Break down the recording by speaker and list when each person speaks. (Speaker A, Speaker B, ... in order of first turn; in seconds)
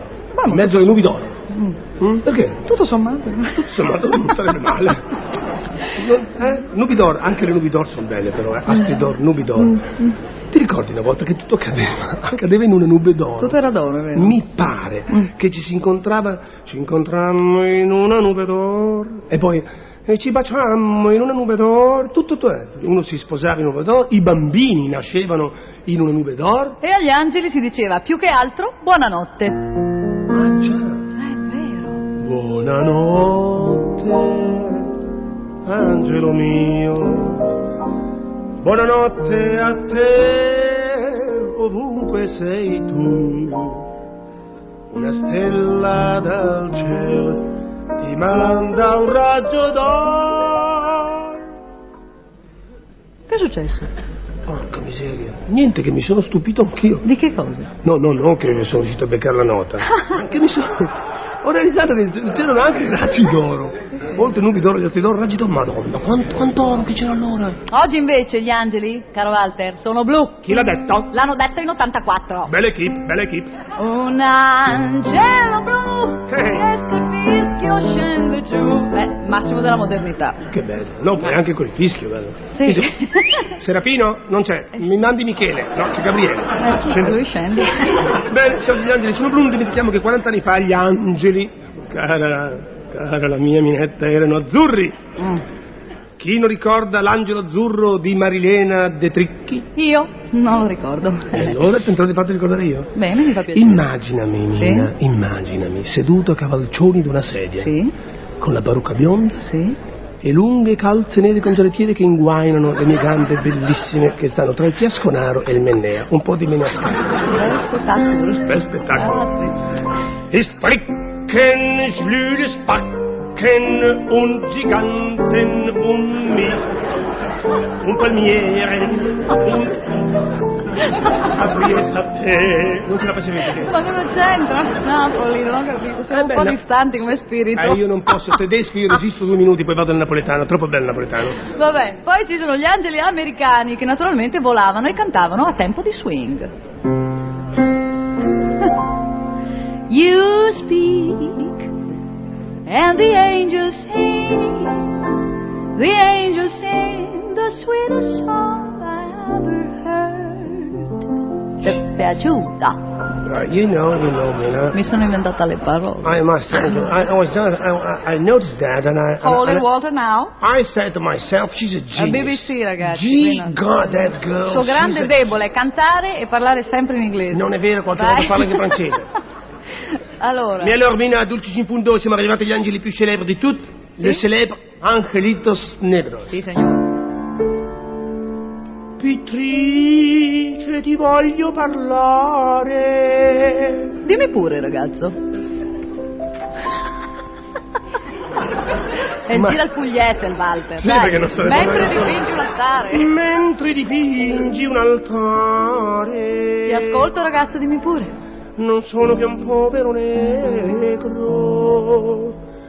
Speaker A: 0.3-0.9, 1.5-1.8, 2.6-3.7, 13.4-14.3, 26.8-29.6, 31.1-32.0, 53.3-53.9, 57.0-57.7, 67.7-70.5, 71.1-72.5, 73.8-80.4, 82.5-83.4, 86.6-88.1, 95.2-95.4, 99.8-101.5, 102.9-103.8, 104.6-104.9, 107.6-107.9, 109.4-109.8, 117.3-119.5, 133.6-137.8, 141.5-146.5, 149.9-151.7, 152.7-154.9, 155.7-160.9, 161.6-162.8, 164.7-166.1, 169.2-170.3, 171.9-173.6, 174.4-177.4, 177.9-178.7, 180.2-180.7, 186.3-186.9, 194.0-195.2, 199.3-203.1, 206.7-208.1
Speaker B: 0.4-1.4, 2.0-2.6, 3.5-5.1, 5.8-9.8, 10.5-13.6, 14.1-26.8, 30.3-31.0, 32.2-34.9, 35.6-37.5, 38.6-43.8, 44.9-51.3, 54.5-57.1, 57.8-67.6, 70.4-71.1, 72.5-73.5, 76.3-76.7, 80.5-87.2, 88.0-95.0, 96.2-99.7, 101.3-102.9, 103.5-107.7, 108.4-109.4, 110.2-117.3, 118.3-119.5, 120.3-126.6, 127.8-129.9, 131.1-133.8, 136.1-141.5, 163.2-164.8, 166.0-169.7, 170.4-175.4, 177.3-179.1, 180.6-186.4, 189.0-193.9, 199.3-199.6, 200.8-202.3, 202.9-207.1, 208.6-212.4